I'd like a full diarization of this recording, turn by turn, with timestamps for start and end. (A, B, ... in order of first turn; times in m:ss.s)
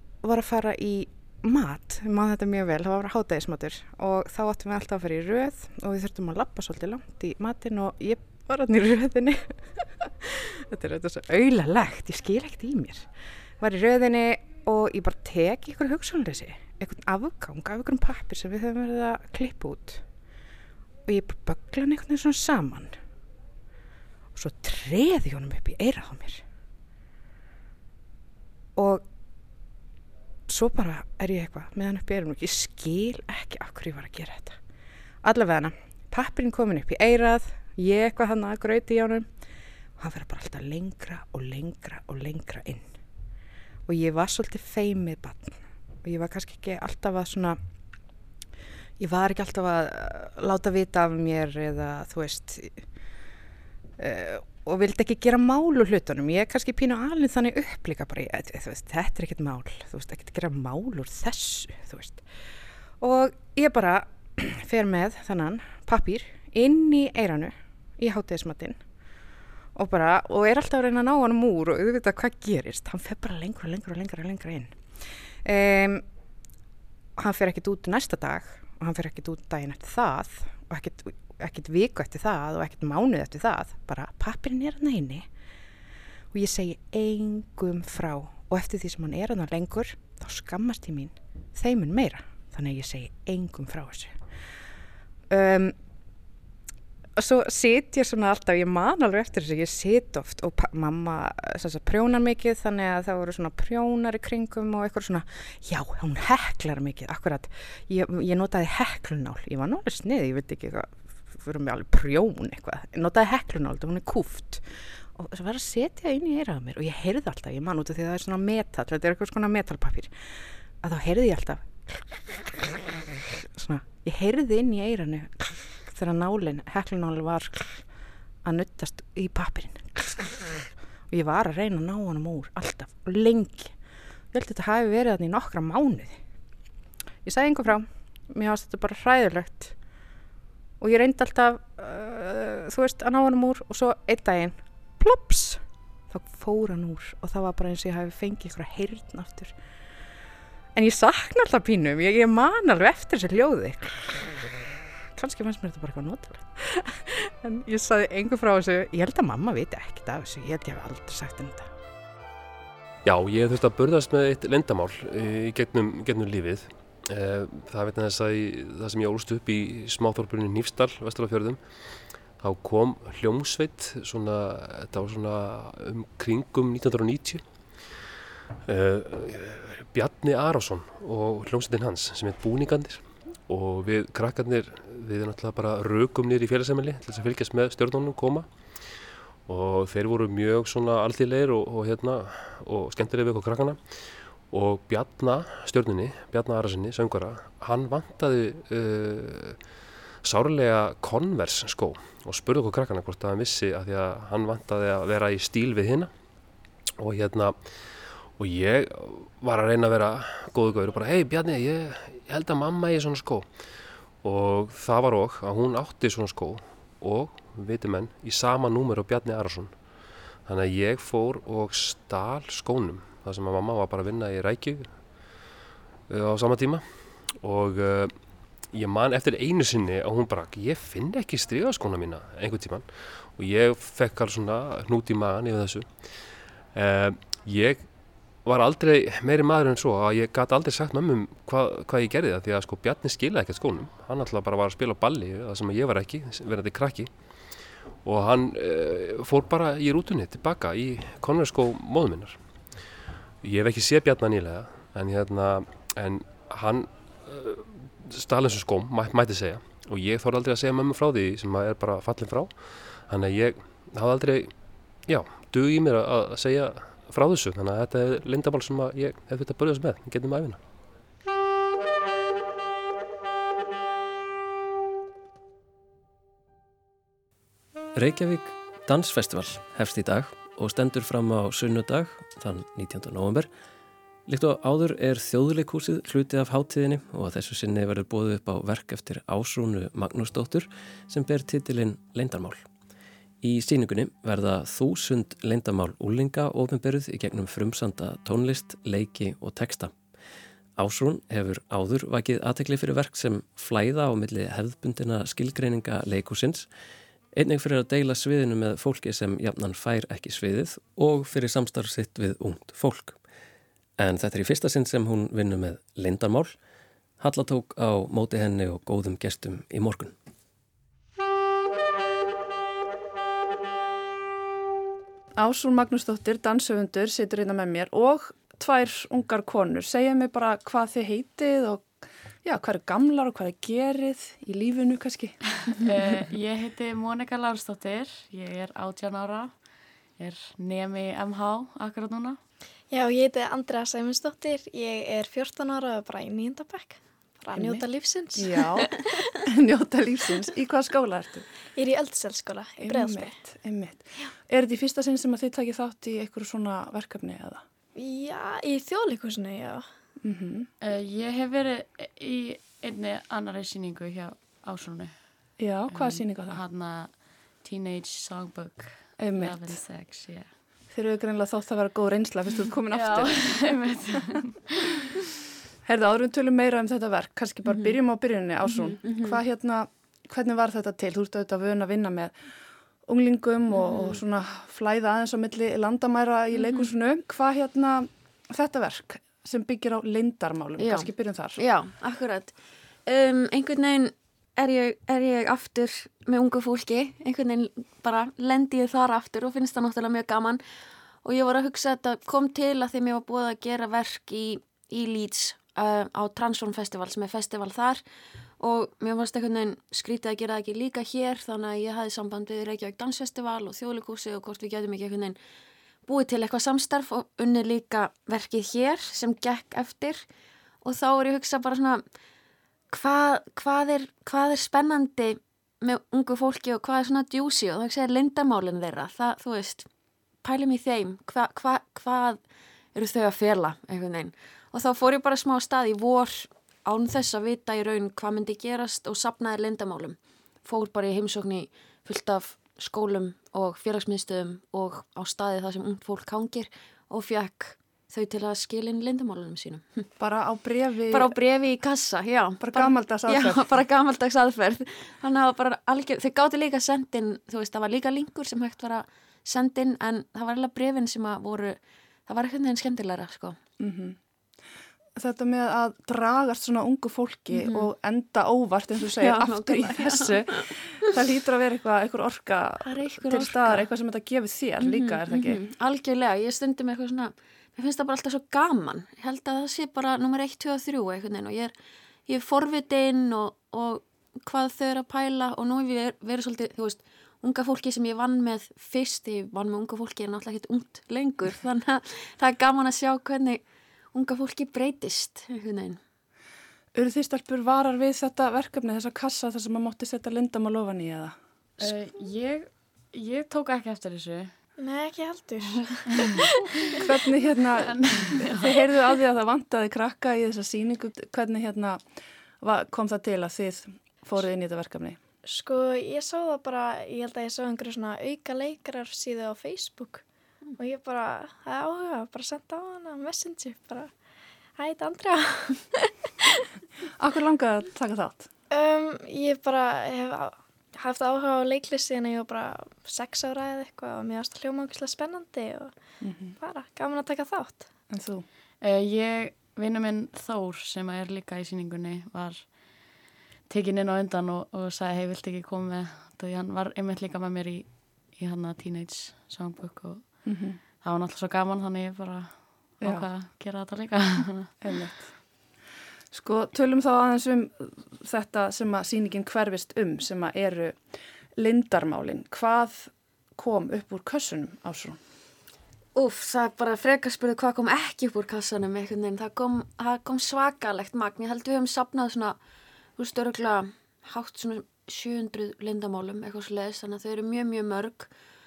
0:00.2-0:20.0 A
0:21.1-0:23.0 A
0:24.4-0:26.4 A
0:28.8-0:29.0 A
0:30.5-0:34.6 A
0:35.2-0:39.3 A
0:40.0-0:42.9 A
0:43.9-0:47.6 A
0:49.0-0:52.9 A
0:54.0-1:02.2 A
1:03.0-1:08.8 A
1:09.8-1:16.0 A
1:17.2-1:25.3 A
1:26.3-1:34.2 A
1:35.3-1:35.8 A
1:37.2-2:02.7 A
2:03.4-2:07.8 A
2:08.4-2:13.8 A
2:14.3-2:16.2 A
2:17.2-2:19.8 A
2:20.8-2:29.5 A
2:30.8-2:34.2 A
2:35.2-2:41.7 A
2:43.0-2:58.0 B
2:58.6-3:19.7 B
3:20.2-3:26.1 B
3:27.0-3:45.4 B
3:46.1-4:12.8 B
4:13.4-4:30.6 B
4:38.0-4:43.5 C
4:44.3-4:52.6 C
4:53.4-4:59.9 C
5:00.8-5:06.7 C
5:07.3-5:13.2 C
5:14.0-5:16.6 C
5:17.2-5:20.2 C
5:25.4-5:31.9 D
5:32.4-5:35.4 D
5:35.8-5:39.5 E
5:40.2-5:42.4 E
5:42.9-5:49.3 F
5:47.5-5:51.5 D
5:51.8-5:53.4 F
5:52.8-5:57.6 D
5:58.0-5:59.9 F
6:00.2-6:00.7 D
6:00.8-6:05.2 E
6:05.6-6:06.6 D
6:05.9-6:10.5 E
6:09.2-6:09.8 D
6:10.9-6:13.6 D
6:12.9-6:14.9 E
6:15.8-6:22.3 D
6:17.7-6:18.0 G
6:18.7-6:19.4 G
6:23.1-6:31.6 D
6:23.7-6:24.2 G
6:26.5-6:26.9 G
6:30.8-6:32.5 G
6:33.1-6:40.6 G
6:41.2-6:48.0 G
6:48.6-6:55.4 G
6:56.1-7:00.2 G
7:00.8-7:02.0 G
7:02.9-7:09.9 G
7:10.4-7:12.4 G
7:13.0-7:30.1 G
7:30.2-7:31.4 D
7:31.1-7:43.6 G
7:32.6-7:33.6 D
7:43.8-7:44.2 D
7:45.2-7:55.6 D
7:47.5-7:47.9 G
7:49.1-7:51.0 G
7:52.8-7:53.9 G
7:54.8-8:01.7 G
8:02.3-8:13.6 G
8:14.1-8:16.0 G
8:17.0-8:21.4 D
8:21.8-8:24.5 E
8:24.8-8:27.0 F
8:27.0-8:32.1 D
8:27.8-8:28.6 E
8:32.6-8:35.2 D
8:35.5-8:40.2 F
8:40.8-8:44.1 F
8:44.8-8:46.6 F
8:47.2-8:48.5 D
8:48.7-8:57.9 F
8:56.2-8:56.6 D
8:58.1-8:58.4 D
8:58.8-9:02.8 E
9:03.7-9:10.4 E
9:10.4-9:10.8 D
9:11.0-9:14.8 E
9:14.8-9:15.4 D
9:16.3-9:21.0 D
9:21.6-9:25.2 D
9:26.2-9:32.6 G
9:33.2-9:38.3 G